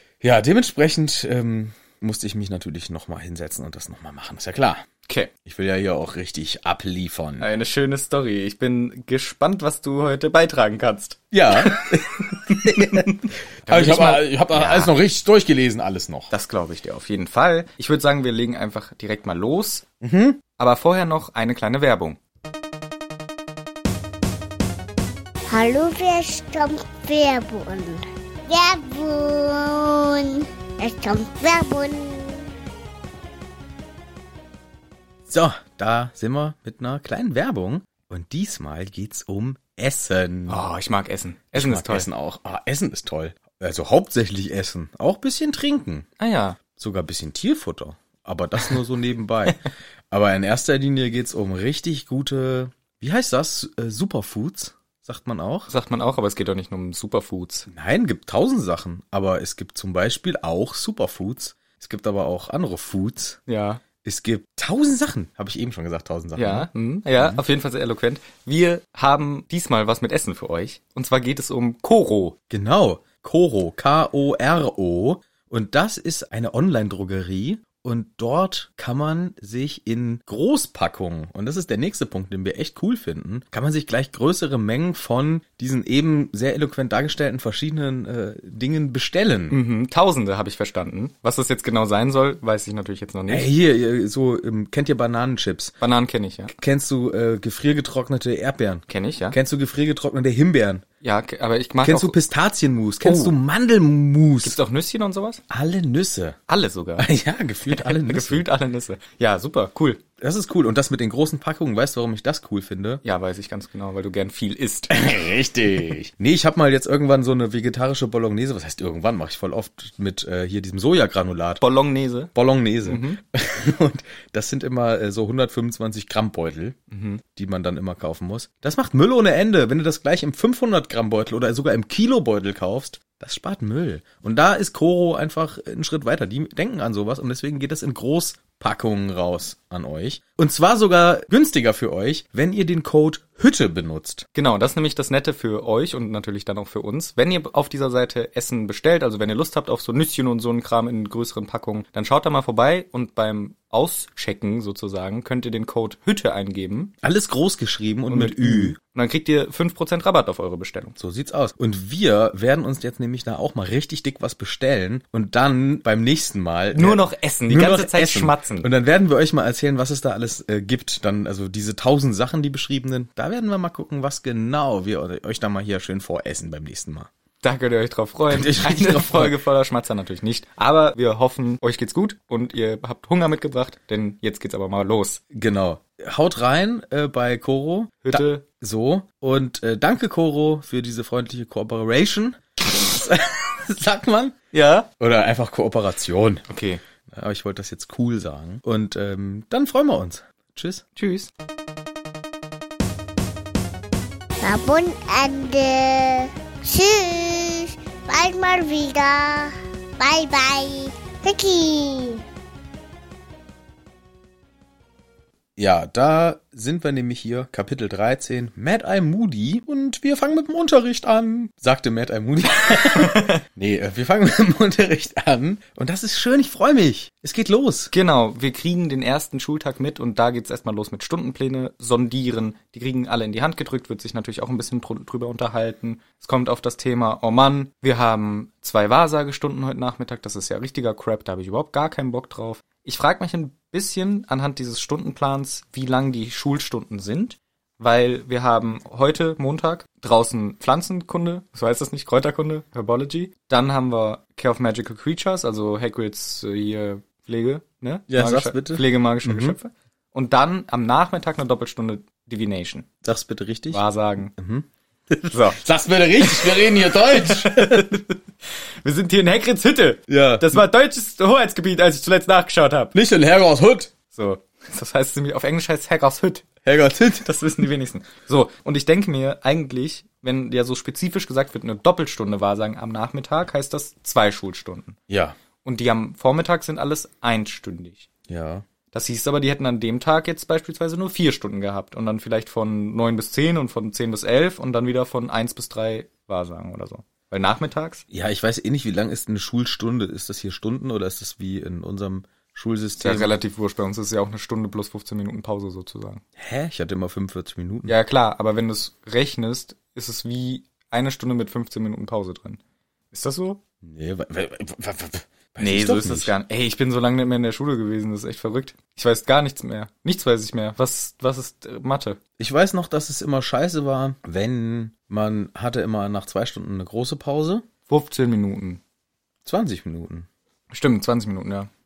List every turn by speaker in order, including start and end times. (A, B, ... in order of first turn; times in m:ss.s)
0:00.2-0:04.8 A
0:05.1-0:05.3 B
0:05.4-0:07.5 A
0:07.4-0:14.9 B
0:11.3-0:16.3 A
0:16.3-0:19.8 B
0:20.0-0:20.4 A
0:20.6-0:22.2 B
0:25.5-0:32.5 C
0:35.3-0:40.6 A
0:40.5-0:42.1 B
0:41.5-0:46.1 A
0:46.2-0:46.6 B
0:46.7-0:55.7 A
0:55.7-0:57.7 B
0:57.7-1:03.4 A
1:03.5-1:03.8 B
1:04.0-1:07.4 A
1:06.4-1:12.4 B
1:12.5-1:29.6 A
1:29.5-1:33.5 B
1:33.3-1:35.8 A
1:35.8-1:36.5 B
1:36.5-1:40.8 A
1:38.9-1:39.4 B
1:41.0-1:42.2 B
1:41.8-1:44.6 A
1:43.0-1:43.3 B
1:44.4-1:45.4 B
1:45.5-1:46.4 A
1:46.5-1:47.1 B
1:47.0-1:48.4 A
1:47.6-1:50.0 B
1:50.2-1:53.0 A
1:53.0-1:54.9 B
1:54.9-2:01.6 A
2:01.6-2:02.3 B
2:02.3-2:06.8 A
2:02.8-2:03.2 B
2:06.9-2:07.2 B
2:07.3-2:24.3 A
2:24.3-2:36.9 B
2:37.0-2:38.8 A
2:38.1-2:40.9 B
2:41.0-2:57.1 A
2:46.7-2:48.7 B
2:57.4-3:05.2 B
2:58.3-2:59.4 A
3:05.3-3:14.4 A
3:08.0-3:08.4 B
3:14.5-3:14.9 B
3:15.0-3:16.4 A
3:16.5-3:16.8 B
3:17.1-3:20.8 A
3:21.0-3:21.3 B
3:24.4-3:32.2 C
3:35.6-3:47.9 A
3:42.8-3:43.4 B
3:47.9-4:22.9 B
4:18.1-4:19.6 A
4:23.0-4:23.8 A
4:23.7-4:24.3 B
4:24.3-4:28.0 A
4:25.3-4:25.6 B
4:26.2-4:32.9 B
4:30.1-4:30.6 A
4:32.9-4:33.9 A
4:34.1-4:36.5 B
4:36.6-4:37.3 A
4:37.2-4:45.0 B
4:45.1-4:45.4 A
4:45.6-4:48.1 B
4:48.3-4:48.6 A
4:48.9-4:58.0 B
4:58.1-5:03.3 A
5:03.0-5:06.2 B
5:06.4-5:07.9 A
5:07.9-5:12.6 B
5:13.1-5:13.6 B
5:13.8-5:16.3 A
5:15.6-5:22.2 B
5:22.4-5:27.6 A
5:27.9-5:28.8 B
5:29.4-5:30.3 A
5:30.7-5:31.7 B